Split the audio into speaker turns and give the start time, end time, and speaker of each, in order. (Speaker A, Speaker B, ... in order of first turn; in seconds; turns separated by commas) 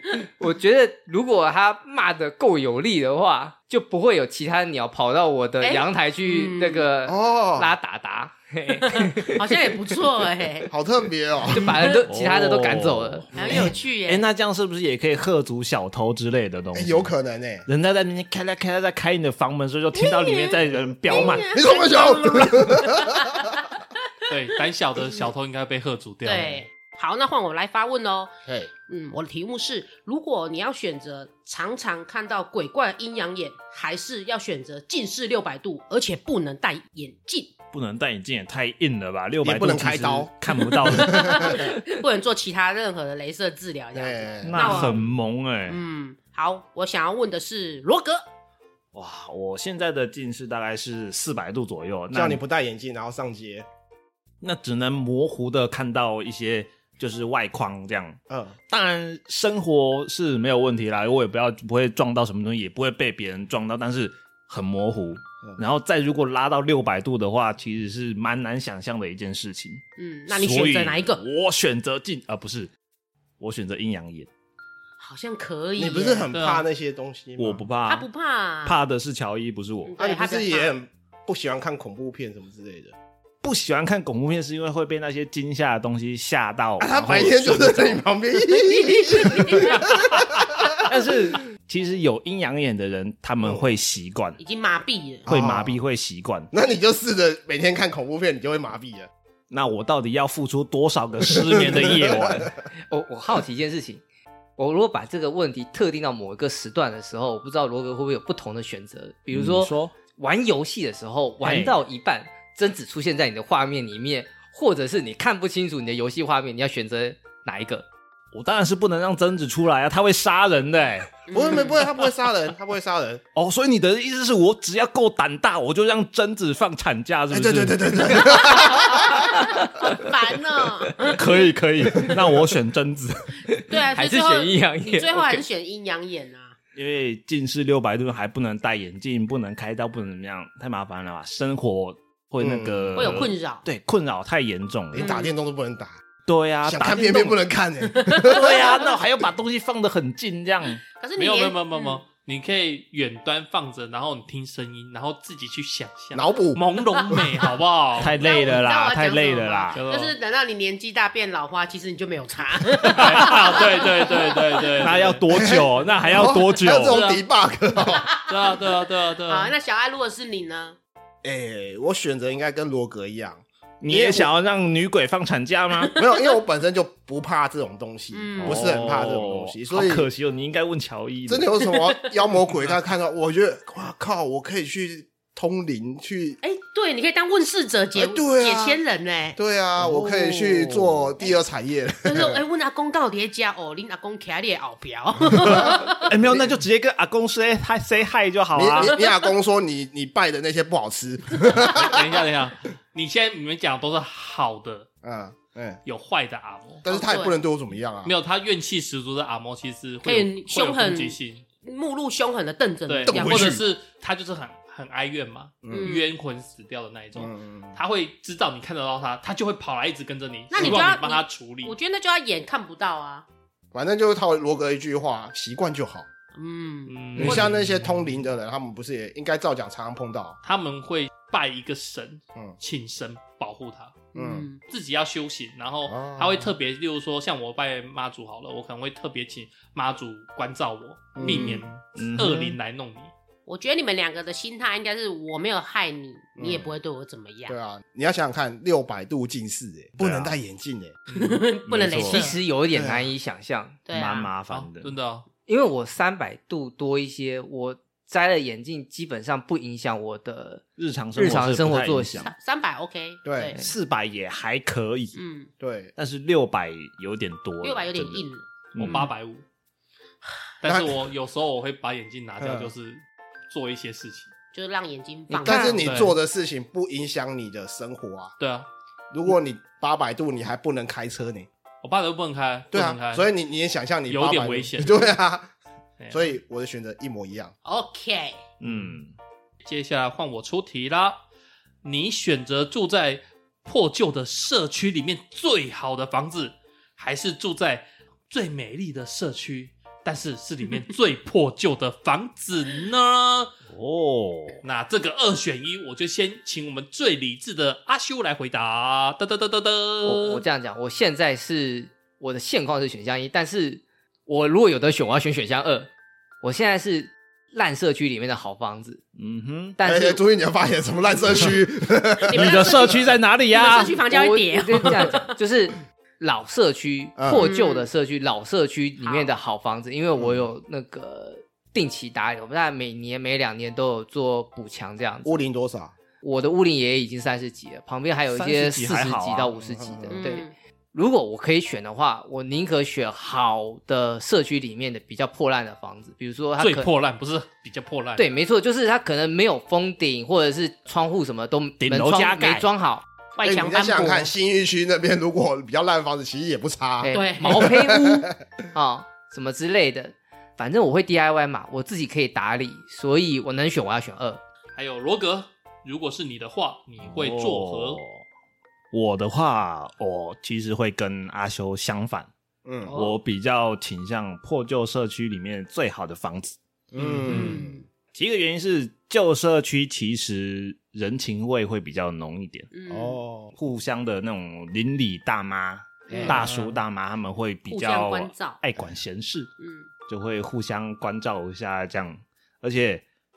Speaker A: 0.4-9.5, Speaker B: 5.6-6.9, Speaker C: 7.0-7.7, Speaker B: 8.9-10.7, Speaker C: 10.7-11.8, Speaker A: 11.5-13.3, Speaker B: 11.6-12.0, Speaker D: 12.1-17.1, Speaker B: 13.3-14.3, Speaker C: 16.7-17.6, Speaker D: 17.7-21.5, Speaker B: 19.9-23.5, Speaker C: 21.1-23.5, Speaker E: 24.3-26.6, Speaker B: 26.2-28.3, Speaker C: 28.4-28.7, Speaker B: 28.9-37.5, Speaker D: 37.7-41.8, Speaker C: 39.4-40.3, Speaker B: 40.8-45.1, Speaker C: 40.9-41.6, Speaker C: 43.9-44.9, Speaker D: 44.4-45.8, Speaker B: 45.7-48.2, Speaker D: 48.9-52.4, Speaker C: 52.1-53.6, Speaker D: 54.4-72.7, Speaker C: 58.3-58.5, Speaker B: 70.0-71.2, Speaker D: 73.4-74.3, Speaker B: 75.0-76.3, Speaker C: 75.8-77.6, Speaker E: 76.3-76.6, Speaker D: 77.4-78.1, Speaker B: 77.9-78.8, Speaker D: 78.6-79.9, Speaker B: 79.9-80.7, Speaker C: 80.0-82.9, Speaker D: 83.4-88.0, Speaker C: 86.8-90.7, Speaker B: 88.5-90.0, Speaker D: 90.1-94.4, Speaker B: 94.4-95.3, Speaker C: 95.3-95.8, Speaker D: 95.3-96.5, Speaker C: 96.5-99.1, Speaker D: 99.5-102.5, Speaker C: 101.5-102.4, Speaker A: 102.9-104.0, Speaker A: 104.6-117.8, Speaker D: 109.3-109.9, Speaker D: 111.4-111.8, Speaker D: 118.3-121.2, Speaker B: 121.3-121.8, Speaker C: 121.3-123.2, Speaker D: 123.3-128.7, Speaker C: 127.3-129.2, Speaker B: 128.8-131.5, Speaker D: 131.1-133.3, Speaker A: 131.9-132.2, Speaker A: 133.6-135.4, Speaker B: 133.7-136.6, Speaker D: 136.7-145.1, Speaker C: 142.4-143.2, Speaker B: 142.9-143.7, Speaker C: 144.9-146.0, Speaker B: 144.9-145.3, Speaker D: 146.2-147.3, Speaker C: 146.6-148.5, Speaker B: 148.0-148.9, Speaker D: 148.2-150.8, Speaker B: 151.0-152.0, Speaker E: 151.2-158.2, Speaker C: 156.1-156.6, Speaker D: 158.0-159.8, Speaker B: 158.2-165.0, Speaker E: 159.7-160.1, Speaker E: 163.0-165.2, Speaker D: 163.0-163.4, Speaker D: 164.8-167.0, Speaker C: 165.3-168.1, Speaker E: 166.8-167.2, Speaker B: 167.9-168.7, Speaker E: 168.3-169.5, Speaker B: 169.3-170.8, Speaker C: 171.2-174.3, Speaker D: 173.8-175.9, Speaker B: 175.8-176.3, Speaker C: 175.9-180.1, Speaker B: 178.1-178.7, Speaker D: 178.4-181.5, Speaker C: 181.3-186.4, Speaker B: 186.4-189.4, Speaker C: 187.9-188.8, Speaker C: 189.3-192.4, Speaker D: 189.8-191.1, Speaker B: 192.0-196.1, Speaker C: 195.3-196.4, Speaker D: 195.9-198.9, Speaker C: 198.5-202.0, Speaker B: 198.8-199.2, Speaker E: 201.8-204.9, Speaker C: 205.0-205.8, Speaker E: 205.8-206.8, Speaker C: 206.8-208.1, Speaker B: 206.9-207.3, Speaker E: 208.0-211.4, Speaker B: 210.0-213.6, Speaker E: 212.9-221.7, Speaker C: 213.1-213.6, Speaker C: 215.6-215.9, Speaker B: 215.7-216.1, Speaker C: 217.1-217.8, Speaker B: 220.5-223.2, Speaker C: 220.6-220.8, Speaker C: 223.7-226.1, Speaker B: 226.3-227.5, Speaker E: 226.9-227.5, Speaker C: 227.2-230.4, Speaker E: 230.4-234.0, Speaker B: 234.1-234.6, Speaker C: 234.2-234.5, Speaker E: 234.7-243.1, Speaker C: 235.9-236.5, Speaker C: 241.2-241.7, Speaker B: 241.2-241.7, Speaker D: 241.9-242.6, Speaker B: 243.5-247.6, Speaker C: 246.4-246.7, Speaker C: 247.5-250.9, Speaker D: 250.0-250.3, Speaker E: 251.1-251.4, Speaker B: 251.1-252.4, Speaker D: 251.7-252.3, Speaker A: 252.0-253.8, Speaker C: 252.7-253.1, Speaker B: 253.9-254.3, Speaker D: 253.9-254.9, Speaker E: 254.5-255.2, Speaker A: 255.5-260.6, Speaker D: 260.8-262.3, Speaker A: 261.1-262.3, Speaker B: 262.2-263.6, Speaker C: 263.2-263.5, Speaker D: 263.6-265.2, Speaker B: 265.1-265.5, Speaker C: 265.6-265.9, Speaker D: 265.9-269.1, Speaker B: 267.6-268.4, Speaker E: 268.8-269.4, Speaker E: 270.6-274.3, Speaker C: 270.6-271.0, Speaker C: 272.4-272.7, Speaker B: 274.5-275.9, Speaker A: 275.3-275.9, Speaker C: 275.4-278.3, Speaker E: 275.8-276.1, Speaker E: 278.4-278.7, Speaker C: 279.1-281.5, Speaker E: 281.8-283.3, Speaker C: 282.7-285.5, Speaker E: 284.1-284.9, Speaker E: 286.0-286.3, Speaker C: 286.1-287.5, Speaker B: 287.6-288.4, Speaker D: 288.6-289.1, Speaker E: 289.6-291.1, Speaker E: 291.8-303.5, Speaker D: 303.7-304.6, Speaker E: 304.6-310.4, Speaker A: 310.0-315.9, Speaker A: 316.4-319.0, Speaker D: 319.1-319.8, Speaker A: 319.8-320.2, Speaker C: 319.8-322.9, Speaker B: 322.2-325.3, Speaker D: 322.3-324.0, Speaker A: 324.1-335.4, Speaker C: 327.2-327.5, Speaker B: 327.3-327.9, Speaker B: 329.0-329.3, Speaker C: 330.2-330.4, Speaker C: 335.2-335.9, Speaker A: 336.2-346.9, Speaker D: 338.3-339.5, Speaker C: 339.6-340.2, Speaker B: 340.1-340.5, Speaker E: 346.6-348.2, Speaker A: 348.2-353.0, Speaker D: 351.8-352.7, Speaker B: 353.4-354.3, Speaker C: 353.4-358.3, Speaker A: 357.0-364.4, Speaker B: 357.1-357.7, Speaker E: 364.7-368.0, Speaker D: 367.0-368.2, Speaker D: 368.9-372.3, Speaker C: 372.6-372.9, Speaker B: 372.9-373.1, Speaker D: 372.9-376.6, Speaker C: 376.9-377.8, Speaker E: 377.2-377.6, Speaker B: 377.2-377.8, Speaker D: 378.1-382.7, Speaker B: 382.7-383.2, Speaker C: 382.9-383.5, Speaker D: 383.5-389.5, Speaker B: 386.1-386.5, Speaker B: 387.7-388.6, Speaker B: 389.6-389.9, Speaker D: 390.1-393.0